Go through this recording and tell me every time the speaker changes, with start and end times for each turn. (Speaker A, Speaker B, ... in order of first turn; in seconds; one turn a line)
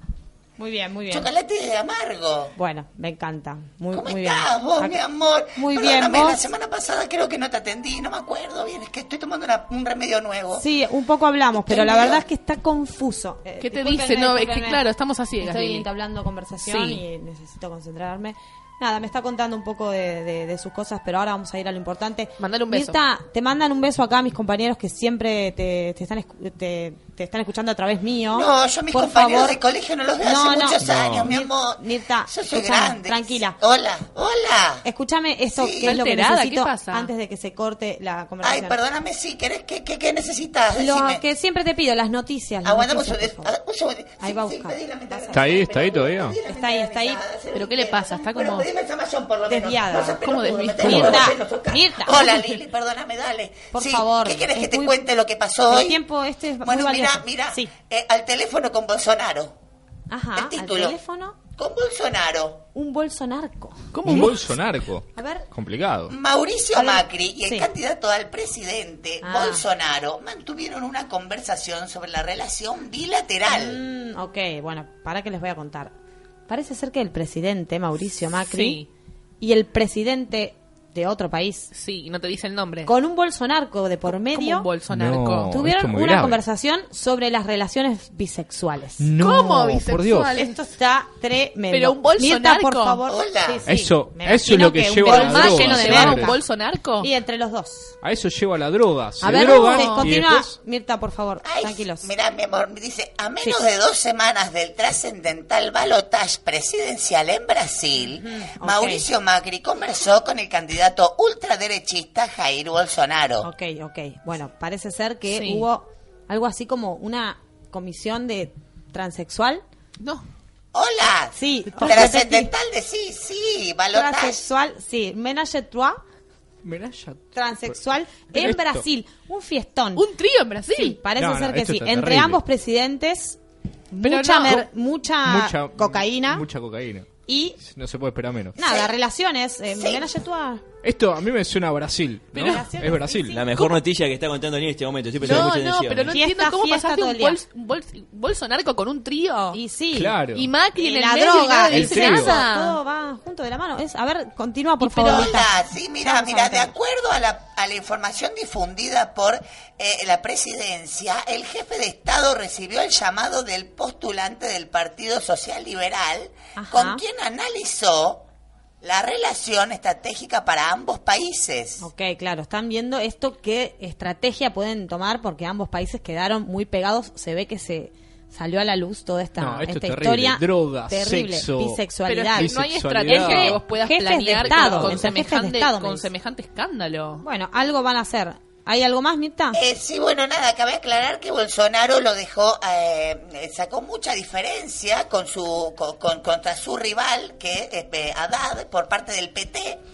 Speaker A: 0.6-1.3
Speaker B: 1.1-2.5
Speaker A: 2.6-5.0
Speaker B: 3.9-10.7
Speaker A: 5.5-6.5
Speaker A: 10.5-14.8
Speaker B: 11.5-12.2
Speaker C: 13.6-15.9
Speaker A: 15.4-29.6
Speaker C: 16.6-17.0
Speaker C: 22.4-23.0
Speaker B: 28.3-34.9
Speaker A: 30.2-33.6
Speaker D: 30.8-31.4
Speaker A: 34.8-38.8
Speaker B: 35.5-36.0
Speaker C: 35.8-37.1
Speaker B: 38.4-41.2
Speaker A: 40.7-43.5
Speaker B: 42.6-56.0
Speaker A: 44.2-45.5
Speaker D: 45.3-46.4
Speaker A: 46.5-47.2
Speaker C: 47.5-48.7
Speaker A: 49.5-50.2
Speaker C: 50.2-51.2
Speaker A: 50.8-52.5
Speaker A: 53.7-55.0
Speaker A: 55.7-57.7
Speaker B: 56.6-59.5
Speaker A: 60.1-61.4
Speaker B: 60.4-62.6
Speaker A: 62.8-63.8
Speaker C: 63.9-64.5
Speaker D: 64.0-66.1
Speaker A: 65.2-65.5
Speaker B: 66.1-73.8
Speaker A: 66.7-67.7
Speaker A: 69.2-69.7
Speaker A: 73.5-75.9
Speaker A: 76.5-78.8
Speaker C: 78.5-78.9
Speaker A: 79.4-81.7
Speaker C: 81.7-82.9
Speaker A: 82.9-84.7
Speaker C: 84.1-85.6
Speaker D: 84.9-86.4
Speaker A: 85.5-89.1
Speaker D: 89.0-90.3
Speaker C: 89.2-90.6
Speaker A: 90.3-96.4
Speaker C: 91.7-93.0
Speaker B: 93.1-93.6
Speaker D: 93.7-96.3
Speaker C: 95.0-97.1
Speaker A: 97.0-98.0
Speaker D: 98.0-100.5
Speaker A: 99.2-102.1
Speaker C: 99.2-100.1
Speaker B: 101.4-113.5
Speaker A: 108.0-109.1
Speaker A: 113.4-119.6
Speaker C: 115.3-115.7
Speaker C: 120.0-120.2
Speaker B: 120.7-124.5
Speaker A: 121.3-122.5
Speaker A: 123.9-126.0
Speaker D: 126.6-127.3
Speaker A: 127.3-130.1
Speaker D: 128.3-128.8
Speaker C: 130.0-131.0
Speaker A: 130.7-133.4
Speaker D: 131.2-132.4
Speaker A: 133.9-136.5
Speaker C: 134.0-134.6
Speaker D: 135.2-137.1
Speaker A: 137.3-137.6
Speaker D: 137.6-138.6
Speaker A: 138.6-140.6
Speaker B: 138.6-138.9
Speaker B: 139.7-140.1
Speaker D: 140.8-143.4
Speaker C: 142.3-142.7
Speaker A: 142.4-143.4
Speaker E: 143.3-146.2
Speaker C: 145.2-149.6
Speaker A: 146.1-147.4
Speaker A: 149.5-150.2
Speaker D: 149.9-150.5
Speaker C: 150.3-152.8
Speaker A: 150.8-156.7
Speaker D: 151.7-152.4
Speaker C: 154.8-155.3
Speaker B: 155.0-168.2
Speaker A: 166.6-167.0
Speaker B: 168.8-171.9
Speaker A: 171.8-182.5
Speaker D: 179.4-181.8
Speaker C: 182.1-187.2
Speaker D: 182.3-183.6
Speaker A: 183.1-186.1
Speaker D: 184.3-185.1
Speaker A: 187.2-189.6
Speaker B: 189.5-199.8